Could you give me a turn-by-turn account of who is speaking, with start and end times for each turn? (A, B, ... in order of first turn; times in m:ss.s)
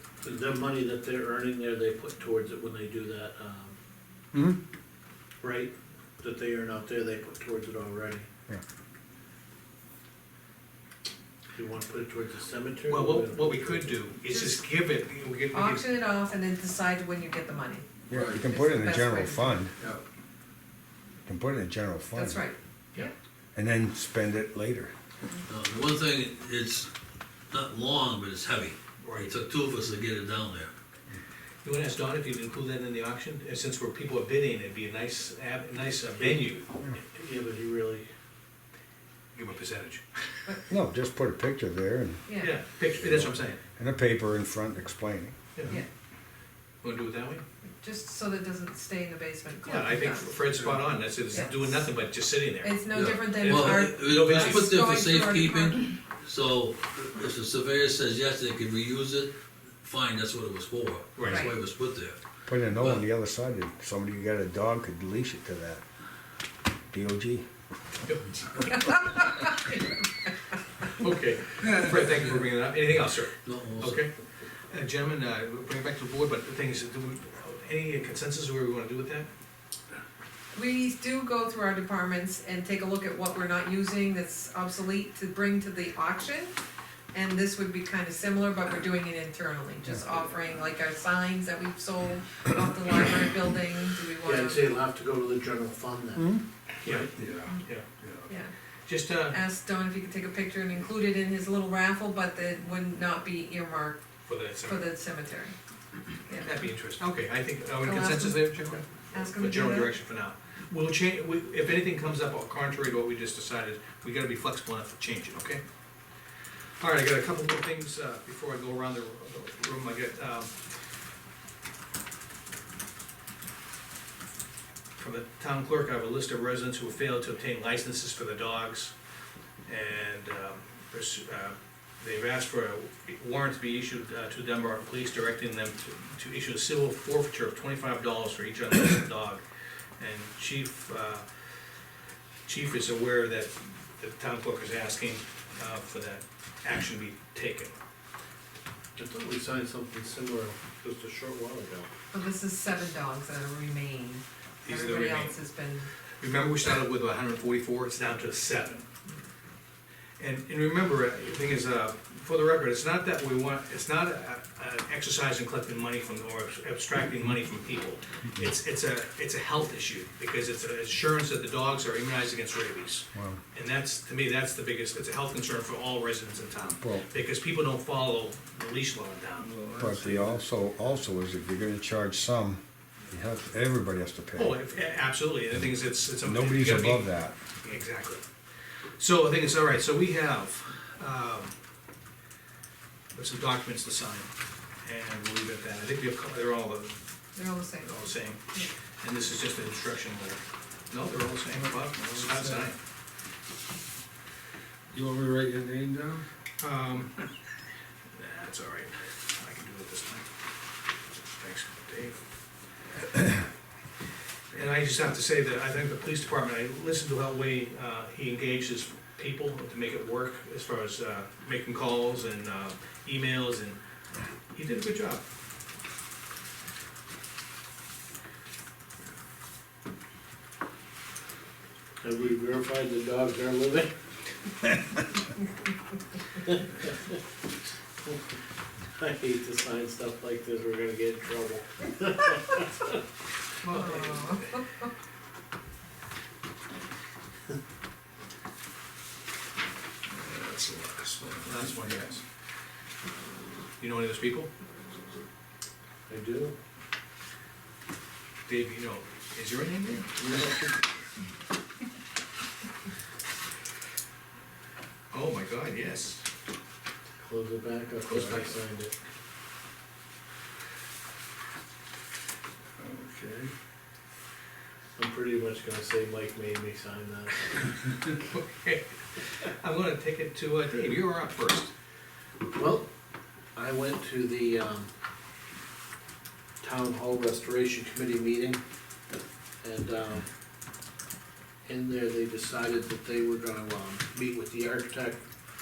0:00.2-0:03.8 A
0:04.3-0:04.6 B
0:05.4-0:08.3 A
0:11.5-0:14.1 A
0:12.9-0:15.9 C
0:14.2-0:14.7 D
0:15.5-0:19.7 D
0:18.1-0:19.7 B
0:21.2-0:22.5 B
0:22.2-0:23.1 D
0:23.6-0:24.9 B
0:25.5-0:26.9 E
0:27.5-0:30.7 E
0:29.0-0:29.4 C
0:31.6-0:36.7 C
0:36.2-0:38.1 A
0:39.4-0:40.0 C
0:40.7-0:42.3 B
0:42.3-0:42.6 D
0:42.4-0:43.6 C
0:42.9-0:45.4 B
0:45.6-0:45.8 C
0:46.8-0:47.4 C
0:47.8-0:50.5 D
0:49.6-0:54.7 C
0:51.3-0:51.9 D
0:52.6-0:55.9 D
0:52.9-1:02.2 E
1:01.2-1:01.5 C
1:01.2-1:01.6 D
1:02.5-1:05.8 B
1:02.8-1:03.0 E
1:06.9-1:07.5 B
1:08.0-1:08.6 C
1:08.6-1:10.0 D
1:10.9-1:19.3 C
1:13.4-1:14.1 E
1:20.5-1:26.5 D
1:27.1-1:34.7 D
1:29.9-1:30.2 B
1:34.2-1:36.3 A
1:36.2-1:36.4 B
1:36.8-1:37.1 A
1:36.8-1:37.9 C
1:38.3-1:38.5 D
1:38.9-1:39.4 C
1:39.3-1:45.6 D
1:44.2-1:44.8 C
1:46.3-1:46.6 D
1:46.4-1:55.6 C
1:47.8-1:50.0 D
1:56.8-2:00.5 C
2:05.0-2:08.9 C
2:09.7-2:19.4 C
2:20.0-2:21.3 C
2:22.5-2:27.8 C
2:29.0-2:31.9 A
2:32.1-2:35.9 D
2:34.6-2:35.4 C
2:36.2-2:38.9 C
2:40.2-2:59.5 C
2:53.1-2:53.4 B
2:56.8-2:57.0 B
2:59.5-3:00.3 F
2:59.7-3:04.6 B
3:04.4-3:07.1 C
3:06.2-3:07.4 B
3:07.6-3:08.2 C
3:09.0-3:11.6 C
3:13.1-3:14.3 C
3:14.8-3:17.0 C
3:17.4-3:18.7 D
3:17.8-3:18.4 C
3:19.0-3:22.8 C
3:22.0-3:22.7 F
3:24.9-3:26.2 F
3:26.6-3:27.2 C
3:28.1-3:30.3 C
3:31.4-3:32.2 C
3:34.5-3:43.8 C
3:44.5-3:45.2 C
3:52.0-3:53.9 A
3:56.4-3:57.2 A
3:58.0-3:58.4 A
3:58.9-4:03.0 A
4:03.6-4:04.6 C
4:03.7-4:04.9 D
4:10.1-4:12.2 C
4:13.8-4:14.5 C
4:16.1-4:16.6 A
4:18.5-4:20.1 C
4:20.2-4:20.7 A
4:25.1-4:26.3 C
4:27.2-4:28.9 A
4:28.1-4:28.6 C
4:32.8-4:33.5 A
4:35.0-4:37.9 A
4:38.3-4:41.7 C
4:42.5-4:42.9 A
4:43.6-4:44.9 A
4:46.6-4:48.6 A
4:49.6-4:50.3 A
4:51.6-4:55.2 A